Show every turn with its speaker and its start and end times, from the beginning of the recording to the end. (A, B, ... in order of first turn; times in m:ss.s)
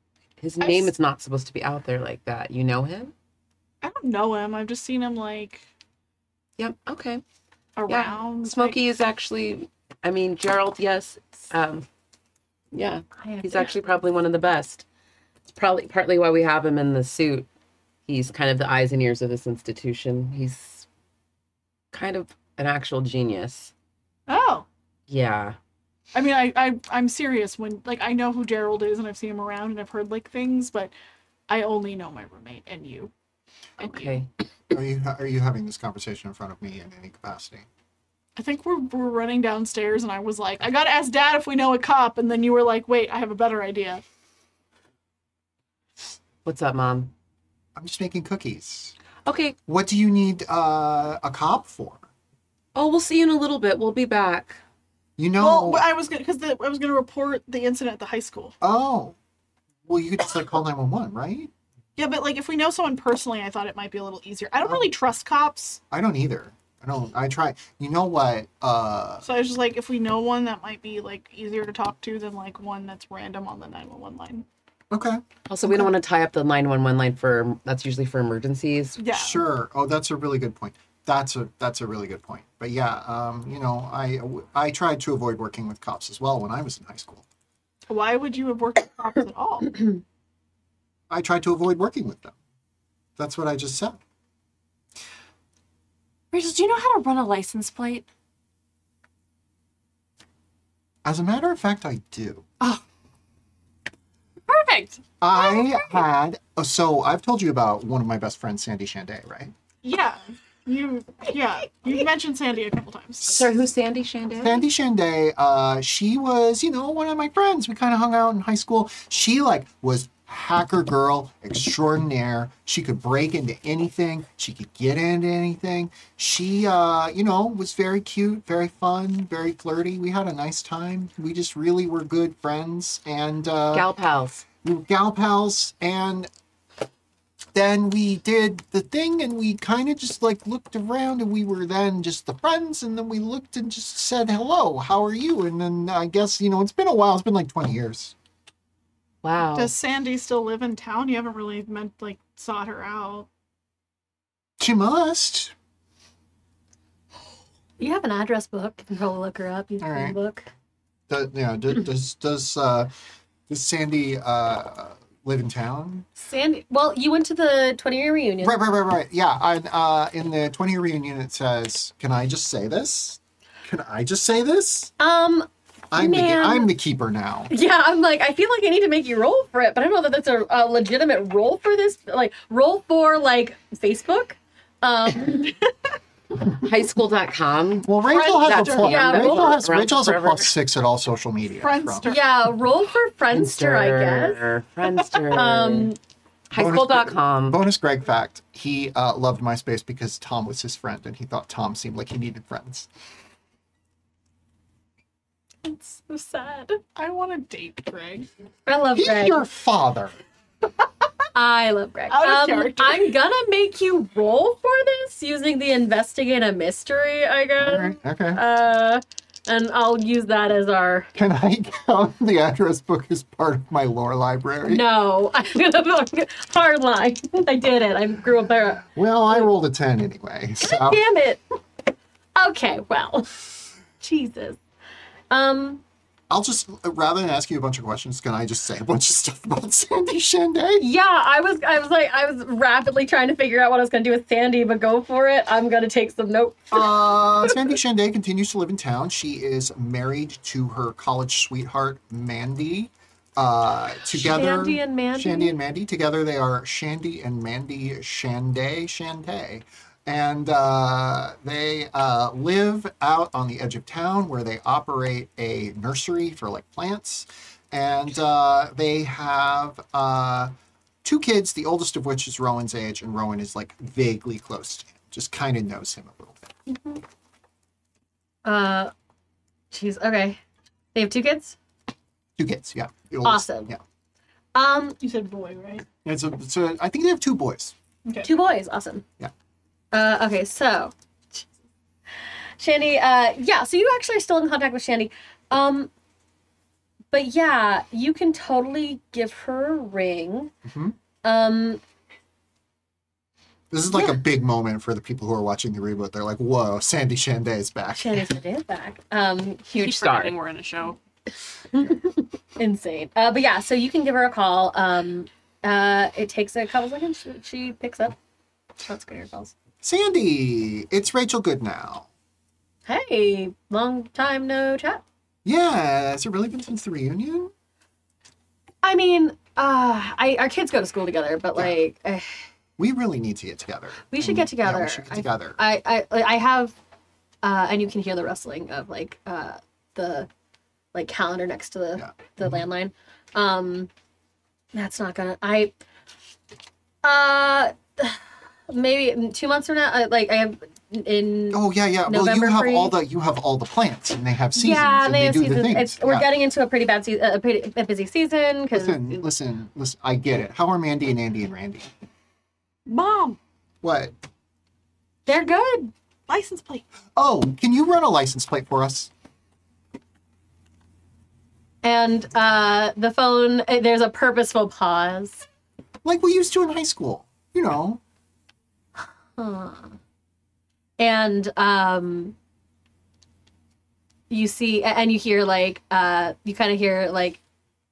0:00.4-0:03.1 A
0:00.6-0:00.9 B
0:03.8-0:05.6 B
0:06.6-0:07.2 A
0:07.8-0:08.8 B
0:07.9-0:11.8 A
0:12.7-0:14.8 A
0:13.2-0:13.8 C
0:15.5-0:17.5 A
0:18.0-0:20.8 A
0:21.9-0:23.7 A
0:24.3-0:24.6 B
0:25.1-0:25.6 A
0:26.1-0:30.9 B
0:31.5-0:33.1 B
0:33.8-0:34.3 A
0:33.8-0:34.2 B
0:34.7-0:37.6 D
0:38.4-0:44.0 B
0:46.4-0:47.1 A
0:47.8-0:48.9 D
0:49.2-0:49.6 A
0:49.7-0:52.1 D
0:52.7-0:54.6 A
0:55.2-0:55.8 D
0:55.4-0:58.5 B
0:58.6-0:59.2 D
0:59.8-1:01.5 D
1:02.0-1:05.8 B
1:04.6-1:04.9 D
1:05.9-1:09.2 D
1:09.2-1:14.4 B
1:14.9-1:15.9 D
1:15.5-1:19.0 A
1:19.0-1:19.4 B
1:19.1-1:27.2 D
1:27.8-1:29.8 B
1:31.1-1:32.4 D
1:33.2-1:34.0 D
1:36.3-1:38.1 E
1:41.0-1:42.4 D
1:44.5-1:45.0 E
1:45.2-1:49.5 D
1:49.8-1:53.5 B
1:53.2-1:54.6 A
1:54.4-2:13.9 D
2:13.7-2:14.5 A
2:14.6-2:16.3 D
2:17.5-2:28.1 D
2:29.2-2:29.7 A
2:29.5-2:33.3 B
2:34.6-2:35.5 D
2:37.8-2:40.5 C
2:39.8-2:40.2 D
2:41.1-2:42.9 D
2:43.5-2:46.1 D
2:46.2-2:48.6 C
2:48.4-2:54.9 D
2:55.0-2:56.7 C
2:55.9-2:57.5 D
2:57.5-3:05.6 C
3:06.6-3:10.5 A
3:07.8-3:12.1 D
3:08.0-3:09.1 B
3:08.9-3:09.5 C
3:11.6-3:12.2 B
3:12.0-3:14.4 C
3:13.3-3:15.9 A
3:15.3-3:16.0 C
3:16.5-3:17.6 A
3:16.5-3:22.9 D
3:25.6-3:26.8 C
3:26.9-3:28.3 B
3:28.7-3:29.4 C
3:28.9-3:30.2 D
3:31.3-3:41.1 C
3:32.1-3:33.1 B
3:37.6-3:38.4 D
3:41.1-3:44.8 D
3:44.6-3:49.5 C
3:48.9-3:51.0 D
3:50.6-3:51.4 C
3:52.4-3:53.4 C
3:54.0-3:54.6 C
3:55.3-3:55.8 C
3:56.3-4:00.9 D
4:00.8-4:07.7 C
4:06.7-4:30.5 D
4:14.1-4:15.6 C
4:31.0-4:36.5 D
4:36.7-4:37.0 C
4:38.4-4:38.9 C
4:39.7-4:40.4 C
4:40.9-4:41.6 C
4:42.4-4:43.8 D
4:43.2-4:43.7 C
4:44.5-4:45.0 C
4:45.0-4:45.8 B
4:46.0-4:47.7 D
4:48.0-4:48.3 B
4:48.2-4:49.0 C
4:49.9-4:51.4 C
4:52.6-4:55.9 C
4:57.1-5:00.5 C
5:00.6-5:01.0 D
5:01.2-5:01.8 C
5:03.7-5:08.3 D
5:08.0-5:09.7 C
5:09.7-5:10.3 A
5:09.8-5:11.0 E
5:11.7-5:18.2 C
5:18.8-5:19.5 C
5:19.8-5:22.1 D
5:22.9-5:25.0 C
5:25.4-5:27.5 D
5:28.8-5:32.3 C
5:32.8-5:35.6 D
5:34.1-5:36.7 C
5:37.4-5:40.3 C
5:40.9-5:43.9 C
5:42.0-5:42.6 D
5:44.7-5:45.7 C
5:47.0-5:53.0 C
5:51.5-5:56.3 D
5:54.5-5:59.2 C
5:58.7-6:01.9 D
6:02.8-6:03.4 B
6:03.8-6:04.1 D
6:05.2-6:05.9 C
6:06.3-6:06.8 B
6:07.2-6:09.1 D
6:11.8-6:15.4 C
6:16.0-6:18.0 D
6:19.0-6:20.0 C
6:21.0-6:22.3 C
6:24.3-6:27.4 C